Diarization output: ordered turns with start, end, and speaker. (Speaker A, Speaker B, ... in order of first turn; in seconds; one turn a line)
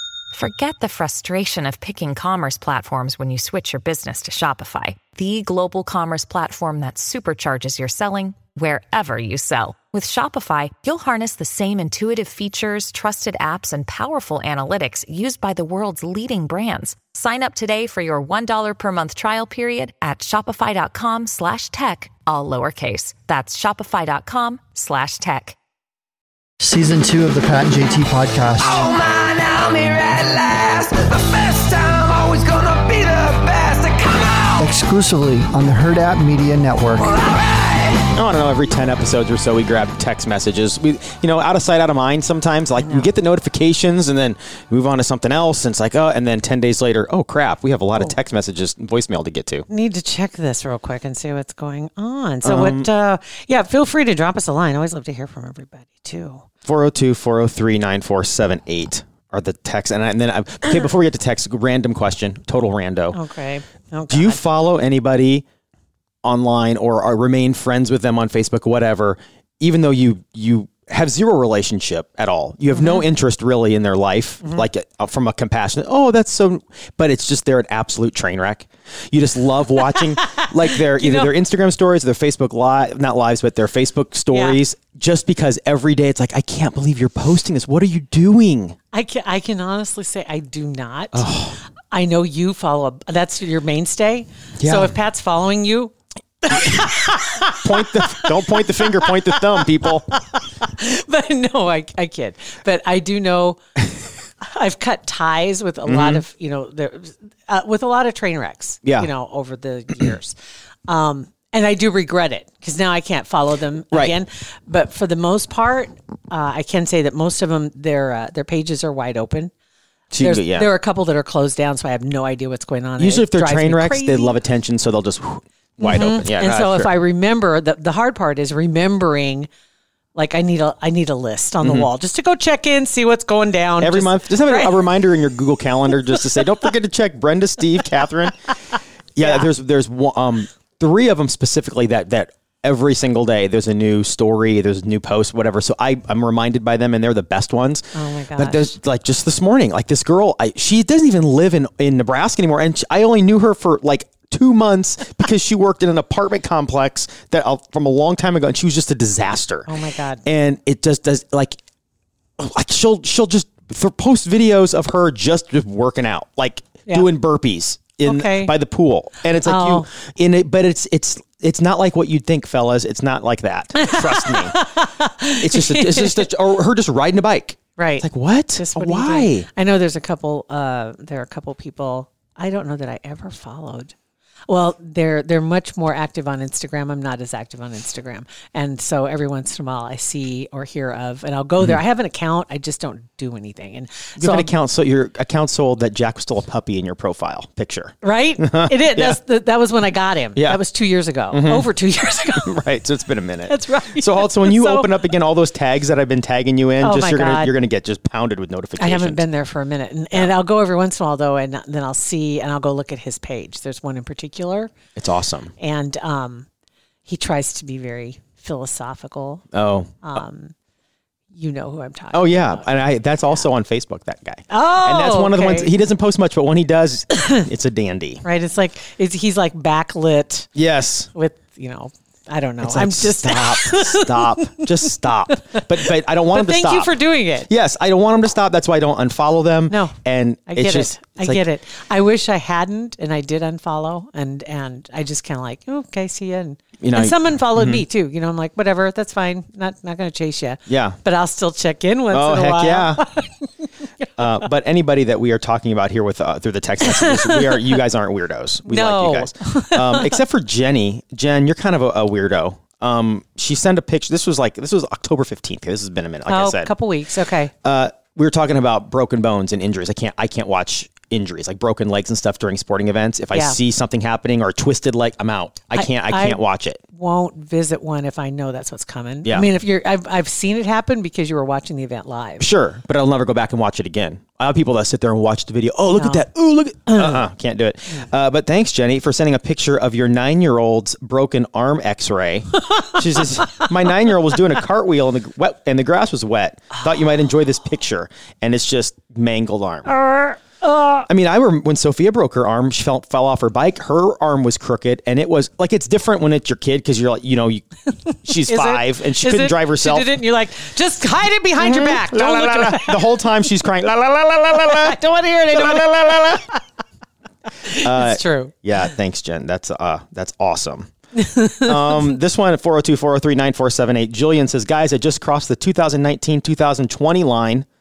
Speaker A: 0.3-25.6
Speaker B: 26.6-28.9
Speaker C: 28.6-34.6
Speaker B: 34.6-37.2
Speaker C: 37.1-38.0
Speaker D: 38.1-49.6
Speaker E: 49.7-56.5
Speaker D: 52.4-52.9
Speaker D: 56.6-63.2
Speaker E: 63.1-64.4
Speaker D: 64.1-65.4
Speaker D: 66.2-88.8
Speaker E: 72.7-73.0
Speaker E: 79.9-81.3
Speaker E: 84.3-84.6
Speaker E: 88.9-91.3
Speaker D: 91.1-91.6
Speaker E: 91.9-103.6
Speaker D: 94.6-94.9
Speaker D: 97.6-100.1
Speaker E: 104.4-110.3
Speaker D: 105.8-106.2
Speaker D: 108.8-109.1
Speaker E: 110.9-119.5
Speaker D: 120.1-120.7
Speaker E: 120.2-124.3
Speaker D: 123.0-126.9
Speaker E: 125.8-129.5
Speaker E: 130.1-134.8
Speaker D: 131.6-131.9
Speaker D: 133.8-138.5
Speaker D: 139.1-159.7
Speaker E: 139.2-139.5
Speaker E: 147.9-148.7
Speaker E: 159.7-160.2
Speaker D: 160.2-161.6
Speaker D: 162.4-174.6
Speaker E: 168.0-168.5
Speaker E: 169.4-169.9
Speaker E: 173.8-176.3
Speaker D: 175.4-179.5
Speaker E: 177.8-183.9
Speaker E: 184.5-194.5
Speaker D: 194.2-199.2
Speaker E: 198.0-202.5
Speaker D: 200.3-200.6
Speaker D: 201.3-201.7
Speaker D: 202.3-209.3
Speaker E: 203.4-204.9
Speaker E: 206.8-207.5
Speaker E: 208.8-214.7
Speaker D: 214.9-215.5
Speaker E: 215.6-216.5
Speaker E: 217.0-219.5
Speaker D: 219.5-220.2
Speaker E: 220.0-220.5
Speaker E: 221.3-223.4
Speaker D: 222.1-228.2
Speaker E: 224.5-225.7
Speaker E: 227.2-227.4
Speaker E: 228.2-230.5
Speaker D: 230.5-231.1
Speaker E: 231.1-237.5
Speaker D: 232.6-241.5
Speaker E: 239.7-240.0
Speaker E: 240.5-254.1
Speaker D: 246.8-247.8
Speaker D: 250.7-251.0
Speaker D: 252.1-253.0
Speaker D: 254.2-266.7
Speaker E: 256.8-257.7
Speaker E: 258.6-260.2
Speaker E: 266.3-267.5
Speaker D: 267.6-276.8
Speaker E: 273.3-273.6
Speaker E: 275.7-282.5
Speaker D: 279.2-279.5
Speaker D: 282.4-299.9
Speaker E: 285.9-286.3
Speaker E: 286.9-287.2
Speaker E: 299.8-301.1
Speaker D: 301.1-310.2
Speaker E: 308.1-313.2
Speaker D: 311.6-315.0
Speaker E: 314.5-316.6
Speaker D: 315.5-316.4
Speaker E: 317.6-318.6
Speaker D: 317.8-320.9
Speaker E: 321.1-322.0
Speaker D: 321.6-327.7